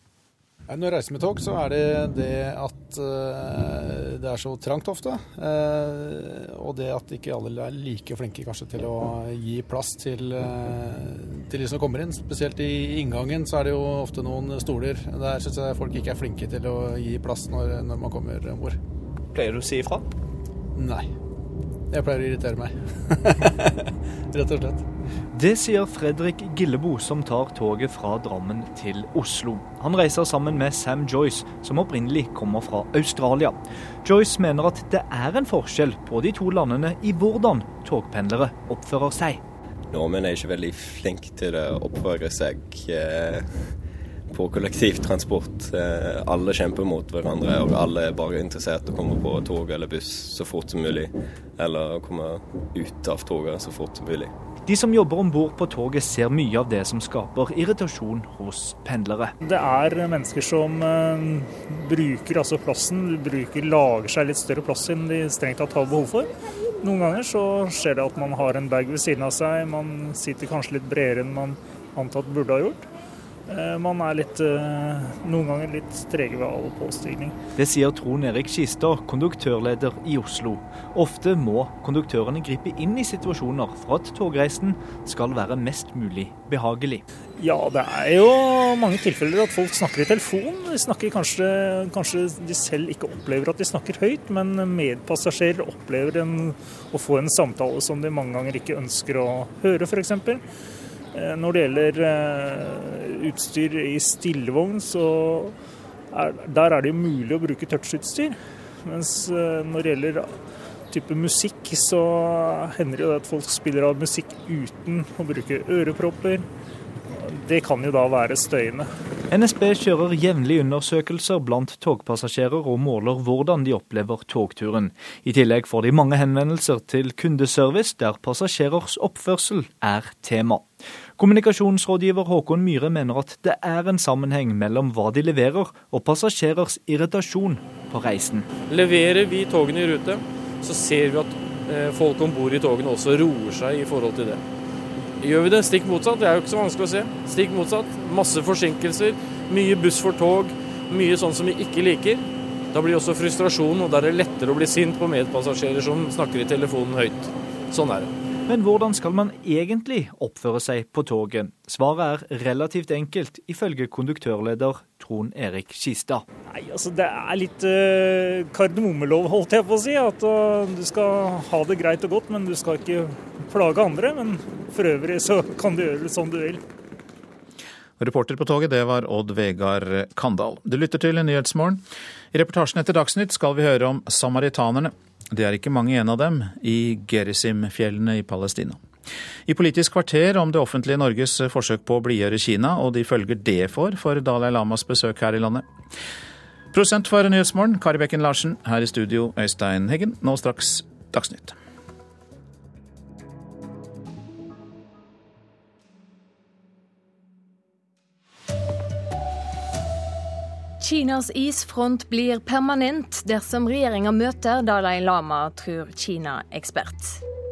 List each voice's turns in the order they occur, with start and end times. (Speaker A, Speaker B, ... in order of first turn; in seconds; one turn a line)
Speaker A: 0.7-18.8
Speaker A: 20.8-21.0
Speaker A: 21.9-22.7
Speaker A: 24.3-24.8
Speaker B: 25.3-39.4
Speaker C: 39.9-43.7
Speaker C: 44.3-54.3
Speaker B: 54.7-59.3
Speaker D: 59.4-72.9
Speaker D: 73.5-77.4
Speaker B: 77.5-87.0
Speaker D: 87.4-100.4
Speaker D: 101.1-105.5
Speaker D: 106.1-110.3
Speaker D: 110.9-116.5
Speaker D: 117.3-118.9
Speaker B: 119.3-138.5
Speaker E: 138.7-140.2
Speaker E: 140.7-144.3
Speaker E: 145.2-152.2
Speaker E: 152.7-157.0
Speaker B: 158.5-166.2
Speaker D: 166.5-176.6
Speaker F: 178.0-181.8
Speaker F: 182.3-188.8
Speaker F: 189.5-195.7
Speaker F: 196.7-201.6
Speaker G: 210.8-217.2